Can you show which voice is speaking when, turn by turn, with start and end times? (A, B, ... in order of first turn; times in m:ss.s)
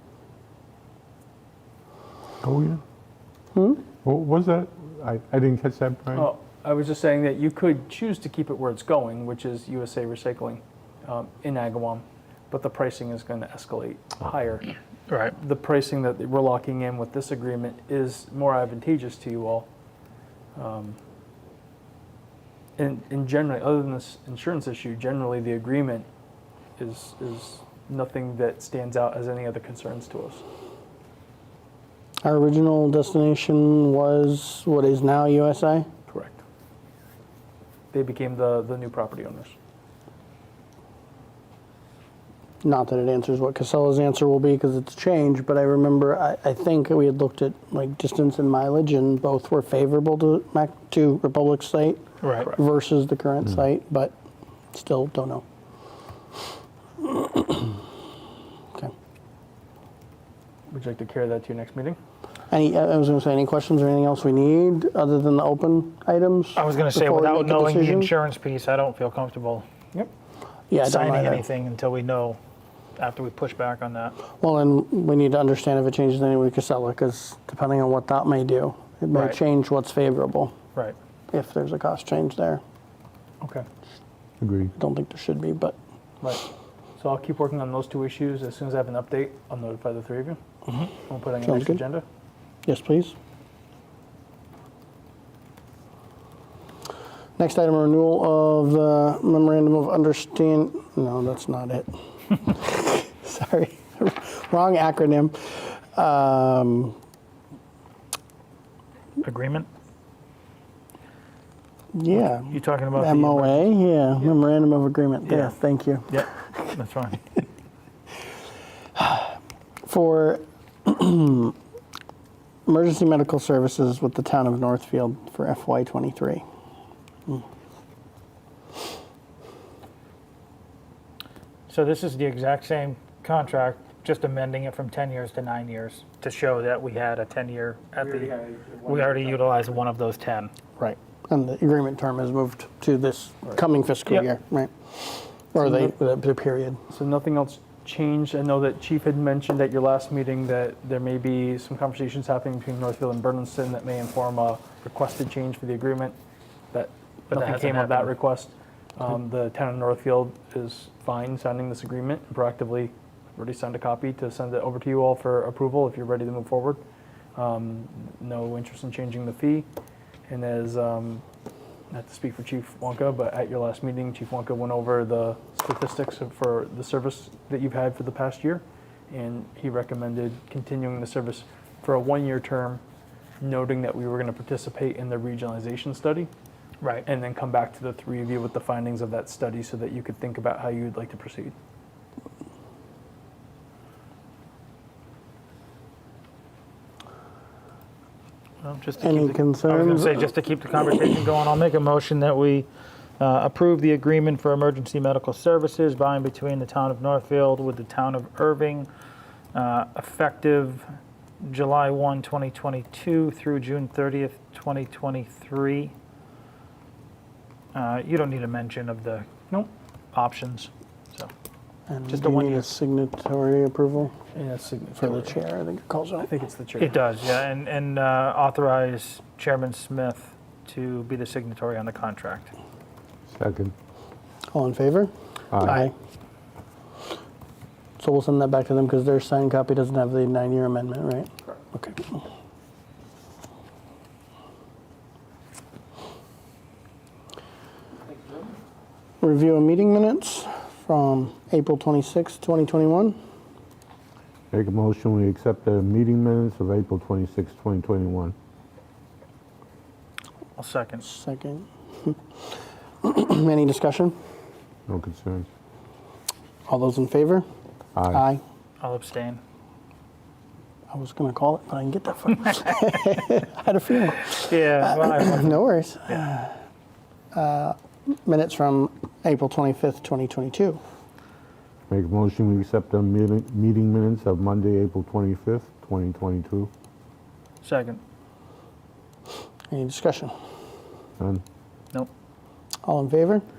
0:02.4-0:02.8 A
0:03.5-0:03.8 B
0:04.0-0:06.3 A
0:06.1-0:14.7 C
0:15.1-0:15.3 D
0:15.3-0:19.7 C
0:20.5-0:21.0 C
0:22.8-0:26.1 C
0:26.8-0:30.4 C
0:32.2-0:35.9 B
0:36.1-0:36.4 C
0:37.9-0:39.5 C
0:42.6-0:54.1 B
0:52.2-0:52.5 D
0:54.7-0:55.4 B
0:57.0-0:57.8 B
1:00.7-1:02.0 C
1:02.5-1:08.1 B
1:06.5-1:09.6 D
1:10.7-1:11.4 B
1:10.8-1:12.4 D
1:13.0-1:14.2 D
1:14.4-1:20.5 B
1:21.3-1:22.6 B
1:23.4-1:23.6 C
1:24.4-1:24.7 A
1:24.8-1:25.7 B
1:27.0-1:30.4 C
1:31.0-1:32.0 C
1:31.4-1:31.8 B
1:32.6-1:33.1 B
1:37.4-1:47.0 B
1:49.2-1:49.7 D
1:51.9-1:56.7 B
1:52.1-1:53.6 D
1:55.3-1:55.5 D
1:56.1-1:57.2 D
1:59.0-1:59.3 B
1:59.8-2:01.5 B
2:02.7-2:06.4 B
2:11.7-2:20.5 D
2:18.3-2:19.4 C
2:20.8-2:26.8 B
2:26.9-2:36.2 C
2:36.7-2:46.8 C
2:37.3-2:38.1 D
2:47.3-2:49.7 C
2:50.3-2:51.2 C
2:51.9-3:02.8 C
3:03.4-3:06.3 C
3:07.0-3:11.5 C
3:18.6-3:22.7 D
3:19.0-3:20.3 B
3:23.2-3:28.9 D
3:29.5-3:30.8 D
3:31.4-3:35.9 D
3:37.7-3:39.2 D
3:40.1-3:41.3 D
3:41.9-3:44.1 B
3:42.1-3:42.6 D
3:44.3-3:45.3 C
3:45.0-3:46.3 B
3:46.2-3:47.0 C
3:46.8-3:52.5 D
3:53.3-3:53.7 A
3:54.5-3:55.9 B
3:58.0-4:02.2 B
4:09.2-4:13.2 B
4:14.5-4:18.3 A
4:20.6-4:21.0 D
4:21.0-4:22.4 B
4:23.0-4:24.2 B
4:24.9-4:25.5 A
4:26.7-4:27.4 B
4:28.0-4:28.2 A
4:28.1-4:28.4 B
4:28.8-4:29.4 D
4:30.9-4:36.6 B
4:34.3-4:36.2 D
4:37.3-4:40.8 B
4:41.9-4:46.7 A
4:47.6-4:48.0 D
4:49.7-4:50.3 B
4:52.8-4:53.4 B